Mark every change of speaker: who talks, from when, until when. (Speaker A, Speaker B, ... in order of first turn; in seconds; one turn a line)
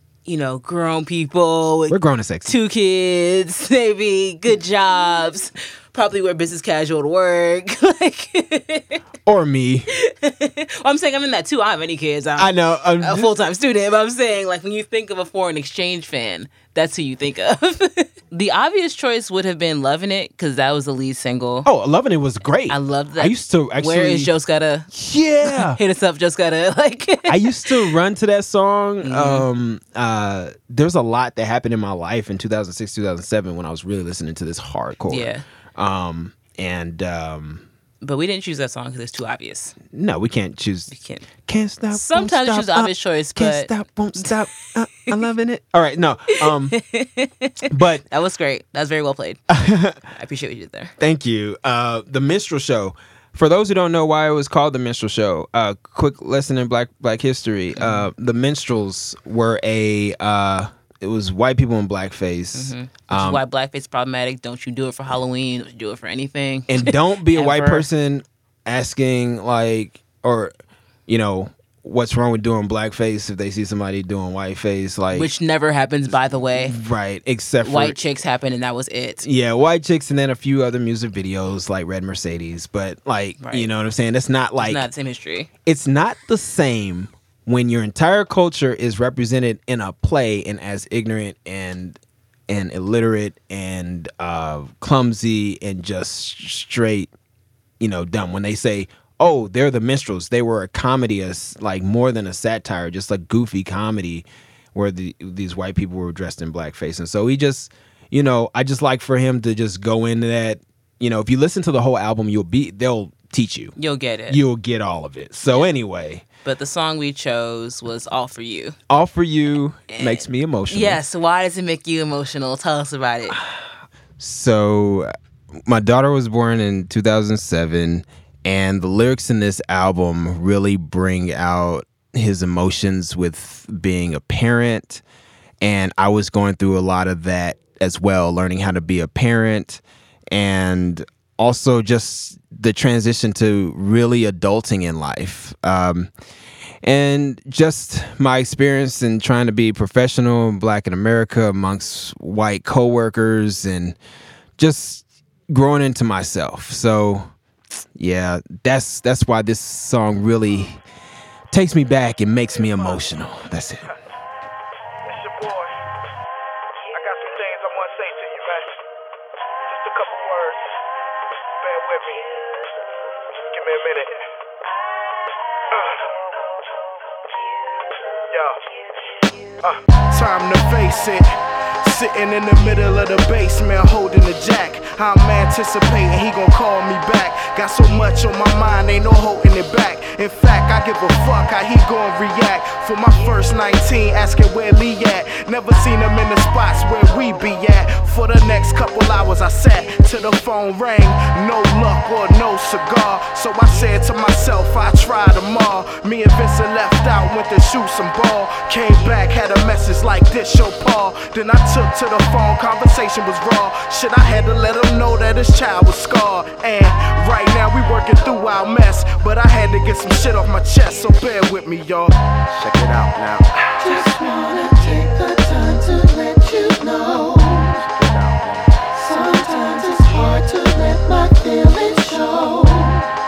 Speaker A: 0.2-9.0
Speaker B: 1.9-2.5
Speaker B: 9.2-9.9
Speaker A: 9.9-21.7
Speaker B: 12.4-13.3
Speaker B: 21.6-24.3
Speaker A: 22.7-24.9
Speaker B: 24.9-25.8
Speaker A: 25.4-27.9
Speaker B: 27.3-37.6
Speaker A: 29.0-29.5
Speaker A: 35.1-35.4
Speaker A: 38.0-39.8
Speaker B: 39.9-40.9
Speaker A: 40.9-41.2
Speaker B: 41.4-46.8
Speaker A: 41.9-44.4
Speaker A: 46.4-49.4
Speaker B: 47.7-48.0
Speaker B: 49.5-50.0
Speaker A: 50.1-50.9
Speaker B: 51.0-63.4
Speaker A: 57.7-58.1
Speaker A: 62.5-67.9
Speaker B: 66.7-70.5
Speaker B: 71.1-75.3
Speaker A: 75.1-76.8
Speaker B: 76.1-78.0
Speaker A: 77.6-79.2
Speaker B: 79.2-84.8
Speaker A: 83.4-83.7
Speaker A: 84.6-85.5
Speaker B: 85.7-92.0
Speaker B: 92.5-97.1
Speaker B: 97.8-113.8
Speaker A: 113.8-114.4
Speaker B: 114.3-116.2
Speaker A: 116.4-118.8
Speaker B: 118.9-121.0
Speaker A: 119.9-123.4
Speaker B: 124.2-125.1
Speaker B: 125.7-135.0
Speaker B: 135.6-146.1
Speaker B: 146.8-153.9
Speaker B: 154.6-157.3
Speaker B: 158.0-160.8
Speaker B: 161.5-163.9
Speaker C: 162.6-162.9
Speaker C: 165.0-165.8
Speaker C: 166.9-168.8
Speaker C: 169.7-170.8
Speaker C: 171.6-172.6
Speaker C: 173.4-174.2
Speaker C: 175.7-176.2
Speaker C: 178.3-178.6
Speaker D: 180.1-181.3
Speaker D: 181.8-224.1
Speaker E: 223.8-227.8
Speaker D: 227.8-228.8
Speaker E: 228.9-233.0